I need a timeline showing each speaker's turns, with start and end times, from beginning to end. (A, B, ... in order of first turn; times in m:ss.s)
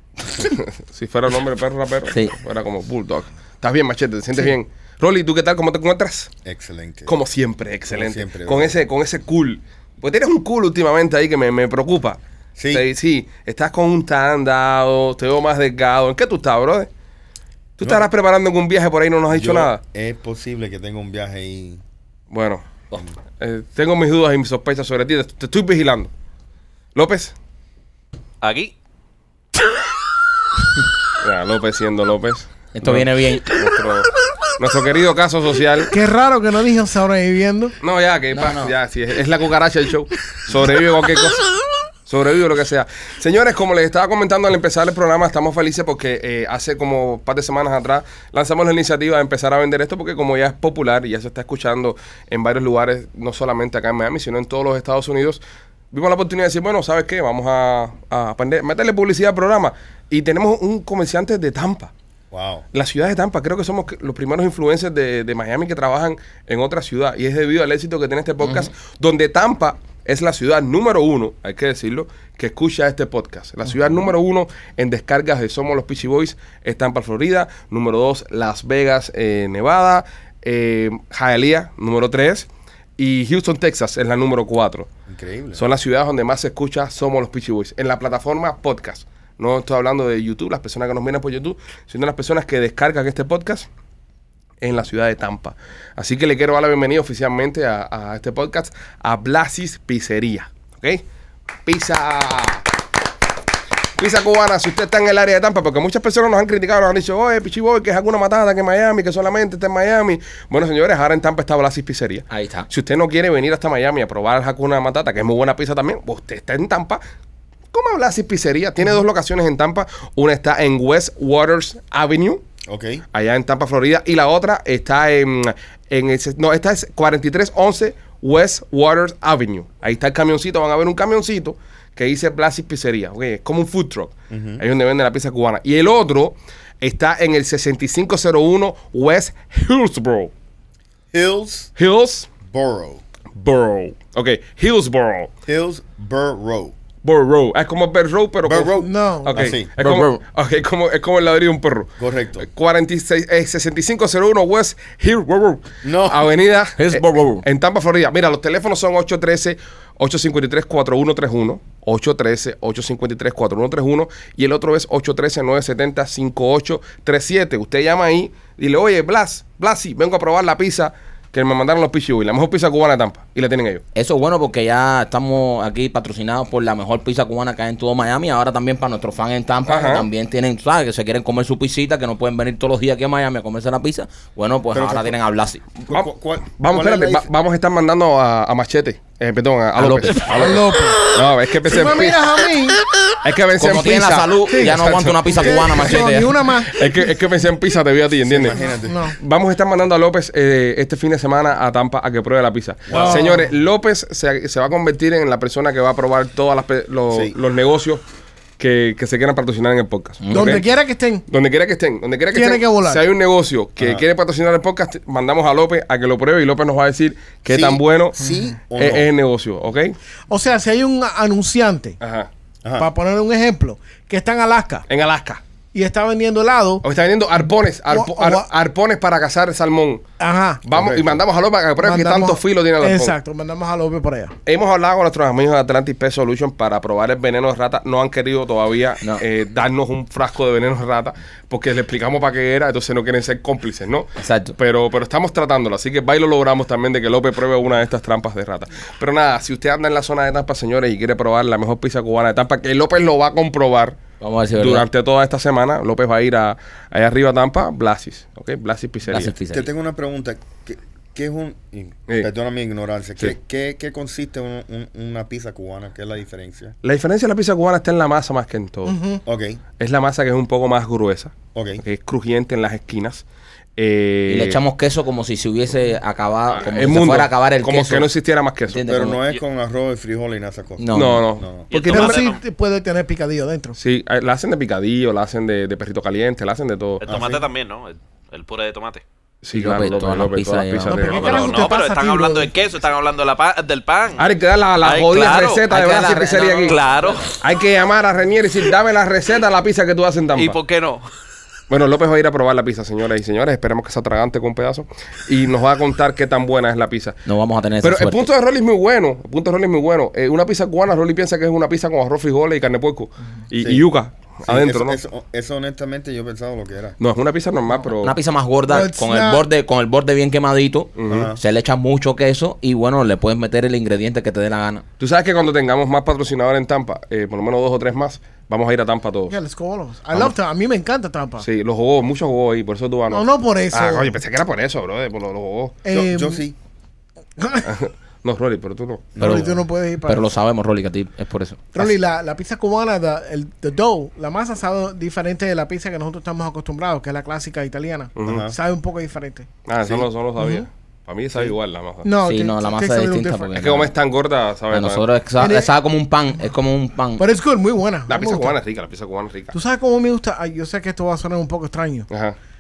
0:00.3-0:06.3 A
0:02.1-0:02.4 B
0:06.4-0:07.2 C
0:07.1-0:12.2 A
0:07.9-0:08.8 C
0:12.6-0:12.8 C
0:12.7-0:16.9 A
0:17.8-0:19.8 A
0:17.8-0:18.1 C
0:19.3-0:21.8 C
0:22.3-0:26.1 A
0:26.9-0:27.3 A
0:28.4-0:28.7 D
0:31.2-0:35.9 A
0:32.7-0:33.5 B
0:35.9-0:37.7 E
0:37.8-0:41.4 A
0:38.3-0:38.7 B
0:42.0-1:01.9 A
1:02.3-1:02.6 C
1:02.7-1:24.9 A
1:08.4-1:08.7 B
1:25.1-1:25.6 C
1:25.5-1:33.7 A
1:34.6-1:41.0 A
1:41.6-1:42.7 A
1:44.0-1:57.0 A
1:52.3-1:52.7 B
1:57.7-2:02.4 A
2:02.6-2:03.0 C
2:03.1-2:20.3 A
2:14.3-2:14.6 C
2:21.1-2:21.7 C
2:21.8-2:22.3 A
2:22.4-2:23.0 C
2:23.3-2:25.3 A
2:25.4-2:26.7 C
2:27.0-2:53.8 A
2:28.4-2:29.7 C
2:28.8-2:29.5 E
2:29.8-2:30.2 B
2:32.0-2:32.5 C
2:35.8-2:36.3 C
2:36.8-2:37.4 B
2:53.9-3:05.6 B
2:59.7-3:00.1 A
3:04.7-3:05.2 C
3:05.8-3:07.3 C
3:05.9-3:12.3 A
3:09.8-3:10.5 B
3:10.3-3:12.8 E
3:13.2-3:16.0 A
3:13.6-3:16.4 B
3:14.5-3:16.9 E
3:16.6-3:28.0 A
3:18.2-3:19.1 C
3:18.8-3:19.2 E
3:22.9-3:23.2 C
3:22.9-3:23.5 E
3:27.1-3:27.4 C
3:28.6-3:30.6 A
3:30.2-3:30.6 B
3:30.3-3:31.2 E
3:31.3-3:38.2 A
3:32.3-3:33.0 E
3:33.8-3:34.0 C
3:37.5-3:39.1 C
3:38.8-3:40.0 A
3:40.3-3:42.0 E
3:42.0-3:42.3 A
3:42.8-3:44.8 E
3:44.9-3:45.4 A
3:45.7-3:46.8 E
3:46.8-3:50.0 A
3:47.9-3:48.4 E
3:50.2-3:50.6 E
3:50.6-3:53.2 A
3:50.7-3:51.2 C
3:51.8-3:54.3 E
3:54.4-4:14.0 A
4:04.2-4:04.5 B
4:14.2-4:14.9 B
4:14.6-4:19.3 A
4:19.1-4:19.7 B
4:19.5-4:26.8 C
4:26.8-4:29.0 A
4:28.8-4:29.2 E
4:29.2-4:29.6 C
4:29.8-4:33.2 A
4:31.5-4:31.8 C
4:33.8-4:34.6 A
4:34.3-4:38.1 B
4:36.5-4:38.8 A
4:38.7-4:39.2 B
4:38.8-4:41.7 C
4:40.8-4:41.3 B
4:40.9-4:42.3 A
4:41.7-4:42.4 D
4:41.9-4:43.8 E
4:43.8-4:47.1 A
4:47.0-4:49.0 D
4:47.1-4:47.4 C
4:49.4-4:51.7 A
4:49.5-4:51.2 B
4:50.8-4:52.5 E
4:51.1-4:54.3 D
4:54.2-4:56.8 A
4:54.8-4:55.6 D
4:55.7-4:56.8 B
4:56.7-4:57.3 D
4:57.3-5:00.6 A
5:00.4-5:01.1 D
5:01.7-5:07.2 A
5:07.2-5:08.3 B
5:07.8-5:15.0 A
5:13.6-5:13.8 C
5:14.4-5:17.0 C
5:17.0-5:18.2 A
5:18.0-5:24.8 B
5:18.7-5:19.4 E
5:21.0-5:21.3 A
5:21.0-5:21.4 C
5:25.0-5:29.4 A
5:29.3-5:31.4 E
5:31.4-5:35.8 A
5:33.1-5:34.2 E
5:35.8-5:36.4 E
5:35.9-5:36.6 C
5:37.4-5:37.7 E
5:37.6-5:39.2 A
5:39.2-5:39.6 C
5:39.2-5:40.2 E
5:39.2-5:39.4 B
5:40.0-5:41.9 B
5:41.7-5:49.5 E
5:48.2-5:48.5 A
5:48.2-5:48.6 C
5:49.6-5:52.1 A
5:49.8-5:50.1 C
5:50.4-5:50.6 E
5:52.0-5:53.6 E
5:52.2-5:53.9 B
5:53.6-5:55.1 A
5:54.7-5:57.2 B
5:55.4-5:55.7 E
5:57.2-5:58.5 E
5:58.1-5:59.5 A
5:59.5-6:02.1 E
6:02.1-6:02.4 A